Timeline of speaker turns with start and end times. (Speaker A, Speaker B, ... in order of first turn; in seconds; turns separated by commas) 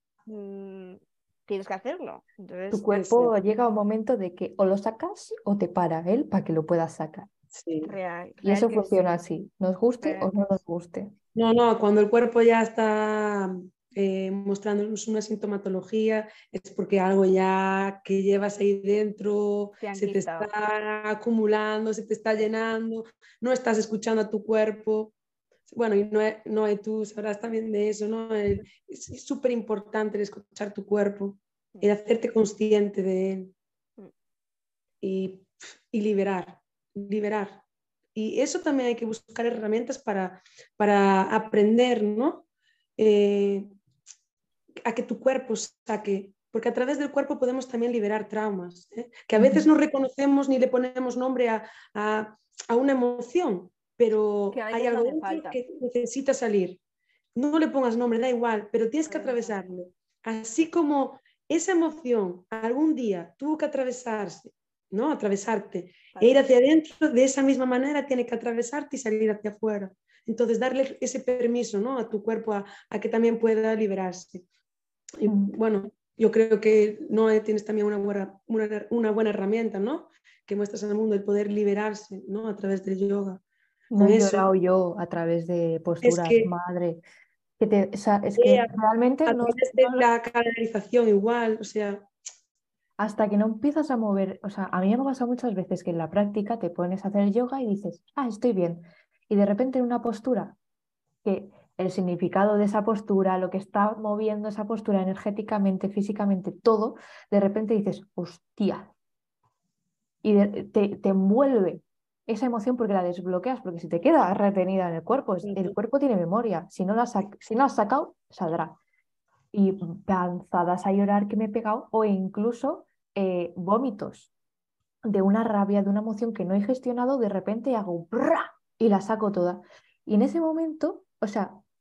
Speaker A: 0.3-3.2, Speaker B: 2.8-3.3, Speaker C: 2.8-7.3, Speaker B: 7.5-7.9, Speaker A: 7.8-9.1, Speaker C: 8.4-11.1, Speaker A: 10.0-10.3, Speaker B: 11.3-25.1, Speaker A: 19.8-20.5, Speaker B: 25.7-33.5, Speaker B: 35.0-37.6, Speaker B: 38.1-42.5, Speaker B: 43.0-43.7, Speaker B: 44.8-56.8, Speaker C: 49.4-49.6, Speaker A: 54.5-55.6, Speaker B: 57.3-74.4, Speaker A: 59.1-59.7, Speaker A: 66.1-66.4, Speaker B: 75.2-83.4, Speaker C: 75.2-75.5, Speaker C: 83.9-87.0, Speaker B: 83.9-84.5, Speaker B: 86.0-86.5, Speaker C: 87.6-90.1, Speaker B: 88.4-88.7, Speaker B: 89.2-92.0, Speaker C: 93.0-100.6, Speaker C: 101.2-108.9, Speaker C: 110.2-118.8, Speaker C: 119.5-124.3, Speaker C: 125.0-131.6